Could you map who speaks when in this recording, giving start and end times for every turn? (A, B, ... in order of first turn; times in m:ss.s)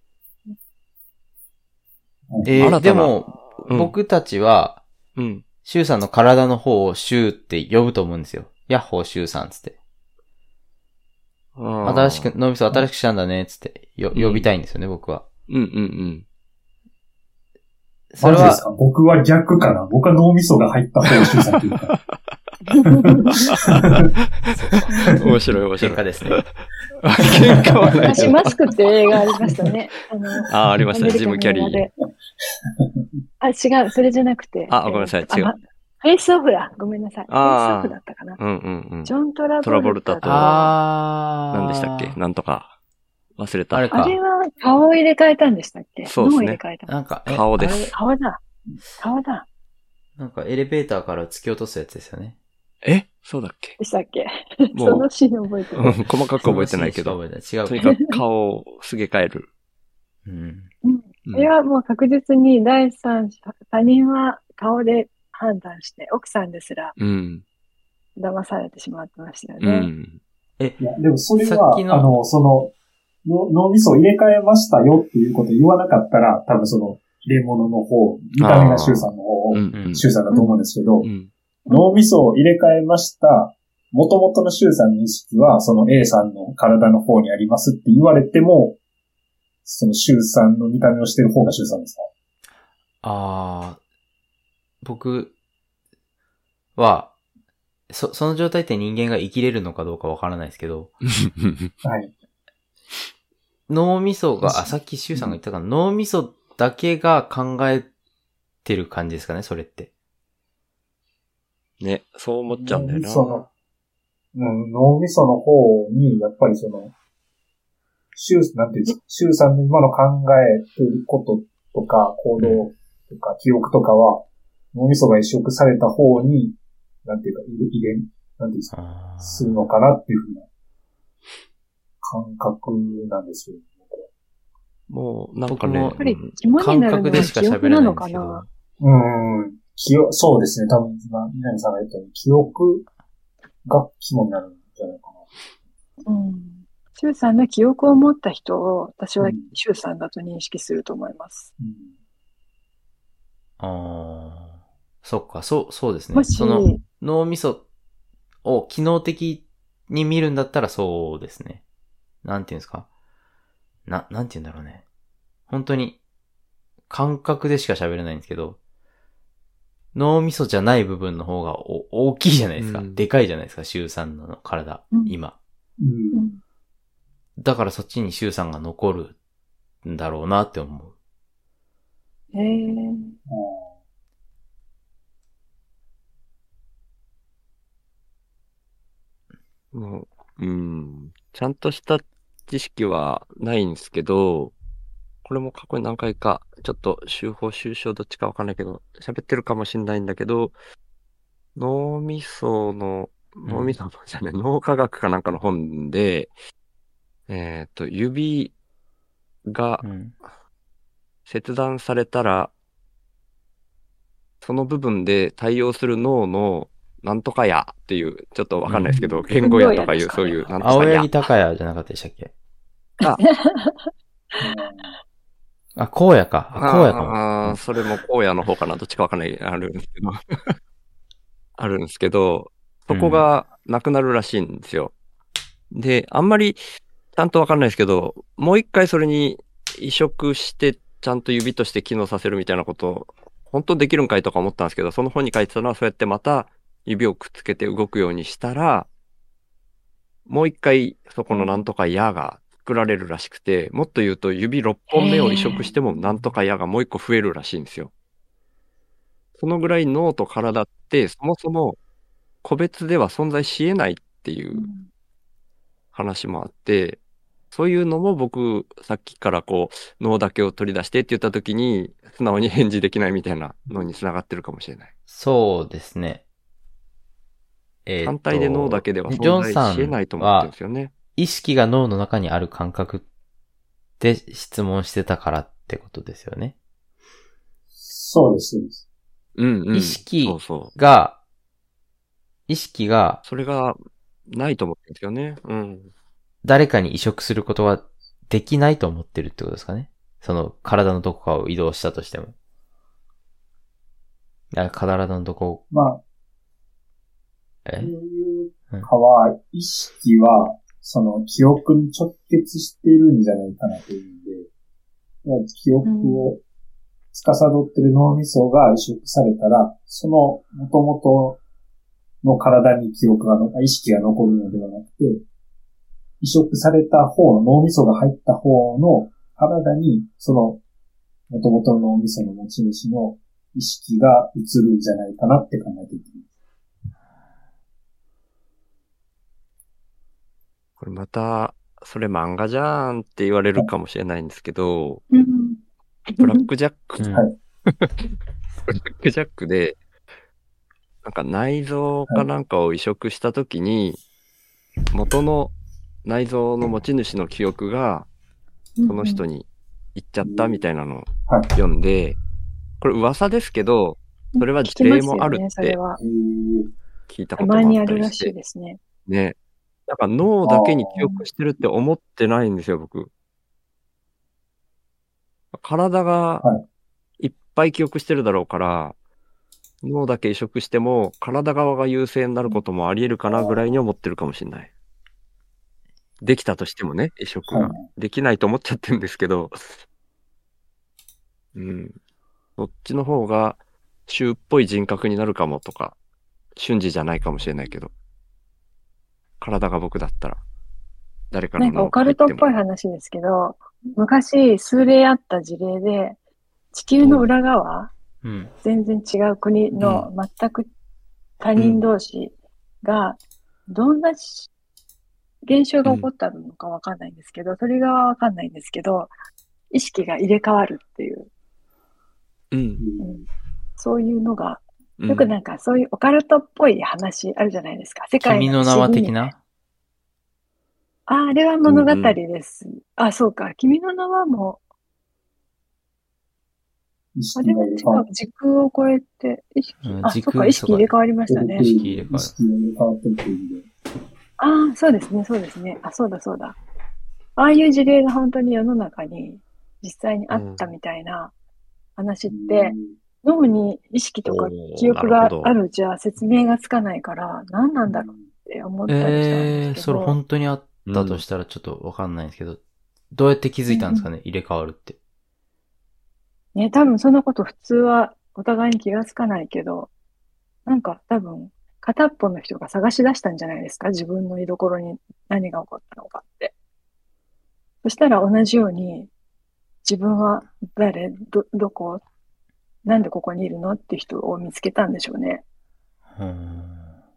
0:02.3-0:02.8 A
0:02.4-0:04.8 B
0:02.6-0:03.9 C
0:05.2-0:05.4 C
0:05.6-0:09.8 B
0:11.6-0:12.3 C
0:11.8-0:15.3 B
0:14.1-0:14.5 C
0:15.5-0:16.2 C
0:18.1-0:18.6 B
0:18.2-0:21.9 A
0:22.7-0:23.4 D
0:22.9-0:24.1 A
0:24.5-0:25.2 B
0:24.9-0:25.2 D
0:25.2-0:28.6 C
0:25.8-0:26.4 B
0:27.2-0:28.6 A
0:28.0-0:31.9 D
0:30.5-0:31.8 C
0:33.4-0:38.4 D
0:34.7-0:35.5 C
0:37.3-0:40.5 C
0:39.0-0:40.8 D
0:40.2-0:42.2 B
0:41.5-0:42.7 C
0:43.4-0:43.9 C
0:43.7-0:44.2 B
0:43.9-0:46.9 D
0:46.0-0:46.6 C
0:46.9-0:47.9 B
0:47.3-0:47.9 C
0:47.7-0:48.4 D
0:49.0-0:49.4 D
0:50.2-0:52.4 B
0:52.8-0:53.8 C
0:53.8-0:56.0 D
0:54.7-0:55.1 C
0:55.8-0:59.5 C
0:56.4-0:57.9 B
0:57.8-0:58.2 D
1:00.3-1:00.7 B
1:00.8-1:06.9 D
1:07.0-1:07.4 C
1:08.2-1:09.9 D
1:09.6-1:10.2 C
1:10.8-1:12.7 A
1:11.4-1:12.1 B
1:13.2-1:21.1 A
1:18.4-1:20.1 C
1:20.3-1:20.6 D
1:21.0-1:21.3 C
1:21.7-1:28.8 A
1:29.6-1:32.1 A
1:33.0-1:33.8 B
1:34.8-1:35.3 B
1:36.8-1:37.1 B
1:37.9-1:41.0 B
1:41.1-1:41.7 C
1:41.8-1:42.1 A
1:43.7-1:47.9 B
1:44.4-1:45.4 A
1:48.6-1:49.9 B
1:51.8-1:53.5 C
1:52.5-1:53.4 A
1:54.3-1:56.9 A
1:58.1-2:10.4 A
2:02.4-2:02.6 B
2:08.7-2:09.6 B
2:12.0-2:14.1 A
2:14.9-2:16.3 C
2:15.5-2:18.5 B
2:16.0-2:18.4 D
2:18.8-2:22.9 A
2:23.6-2:25.2 A
2:26.1-2:31.5 D
2:29.2-2:29.5 A
2:31.6-2:31.9 A
2:33.6-2:34.5 B
2:35.0-2:37.6 B
2:36.1-2:36.8 D
2:38.4-2:41.6 B
2:42.2-2:42.9 B
2:43.9-2:44.8 B
2:45.5-2:46.0 B
2:46.9-2:48.6 B
2:49.9-2:55.4 B
2:52.6-2:53.0 C
2:54.9-2:55.2 D
2:55.8-2:56.2 A
2:56.1-2:56.4 D
2:57.4-2:59.1 B
2:59.8-3:00.9 B
3:02.3-3:03.2 D
3:03.3-3:03.7 A
3:09.7-3:14.6 C
3:15.2-3:20.6 C
3:21.6-3:26.3 C
3:23.5-3:23.7 B
3:27.3-3:28.5 C
3:29.4-3:29.9 C
3:29.8-3:30.1 B
3:31.3-3:32.5 C
3:34.4-3:41.1 C
3:38.7-3:39.0 B
3:38.9-3:39.2 A
3:39.4-3:40.8 D
3:40.6-3:42.3 B
3:43.1-3:43.9 D
3:44.4-3:44.9 A
3:45.8-3:47.6 B
3:46.6-3:50.6 C
3:51.6-3:54.9 C
3:52.9-3:53.3 B
3:55.7-3:56.6 C
3:57.1-4:08.9 C
4:10.3-4:17.9 C
4:11.3-4:11.7 D
4:14.9-4:15.7 D
4:19.4-4:21.8 C
4:22.4-4:24.6 C
4:24.5-4:24.9 D
4:25.9-4:27.0 C
4:27.5-4:34.9 C
4:35.1-4:36.2 B
4:37.9-4:40.5 B
4:38.0-4:40.9 C
4:41.2-4:43.0 B
4:44.0-4:46.6 B
4:47.8-4:48.8 A
4:49.4-4:50.7 C
4:49.7-4:51.2 B
4:52.5-4:53.2 B
4:53.2-4:55.9 C
4:56.4-5:02.3 B
5:04.5-5:05.6 B
5:05.7-5:06.0 A
5:07.6-5:07.9 B
5:07.8-5:14.5 A
5:15.2-5:16.4 A
5:15.8-5:16.3 D
5:17.1-5:21.4 A
5:22.2-5:25.2 A
5:26.2-5:30.6 A
5:31.3-5:36.3 A
5:40.8-5:45.0 C
5:45.1-5:45.6 D
5:46.1-5:46.4 D
5:46.2-5:47.1 C
5:47.0-5:47.3 B
5:47.7-5:48.1 C
5:48.7-5:49.8 C
5:51.0-5:54.0 C
5:54.9-5:58.1 C
5:58.8-5:59.2 D
5:58.9-6:02.2 C
6:00.2-6:00.6 A
6:02.8-6:05.8 C
6:04.3-6:06.0 D
6:06.0-6:06.7 A
6:07.1-6:08.3 C
6:07.4-6:08.8 D
6:09.1-6:09.4 C
6:09.9-6:13.1 C
6:10.4-6:11.1 A
6:15.5-6:16.4 C
6:17.2-6:19.0 C
6:19.8-6:24.7 C
6:26.2-6:29.8 C
6:27.5-6:27.9 A
6:31.6-6:32.0 C
6:32.6-6:36.0 C
6:36.6-6:37.9 C
6:39.4-6:40.4 C
6:41.3-6:42.5 C
6:41.6-6:46.2 D
6:46.7-6:47.9 D
6:47.0-6:47.3 C
6:48.2-6:48.5 B
6:48.6-6:50.7 D
6:49.8-6:50.1 C
6:51.4-6:54.5 D
6:51.6-6:51.8 C
6:55.4-6:59.1 D
6:59.7-7:01.3 D
7:02.5-7:02.8 C
7:02.8-7:03.3 A
7:03.0-7:03.3 D
7:03.8-7:09.2 D
7:05.0-7:05.3 C
7:08.2-7:09.4 B
7:11.1-7:14.6 D
7:11.6-7:12.2 C
7:17.1-7:18.1 A
7:17.4-7:21.7 D
7:19.8-7:20.9 B
7:21.3-7:23.7 A
7:21.6-7:22.3 B
7:24.4-7:26.6 D
7:27.4-7:31.3 D
7:30.3-7:30.7 C
7:32.0-7:40.2 D
7:32.3-7:32.9 A
7:34.2-7:35.5 C
7:37.9-7:38.3 A
7:38.9-7:42.6 B
7:40.8-7:41.2 C
7:43.1-7:45.0 B
7:43.7-7:44.1 D
7:46.6-7:49.9 D
7:50.6-7:56.5 D
7:57.8-7:59.1 D
7:59.8-8:02.0 D
8:02.8-8:05.4 D
8:06.1-8:06.9 B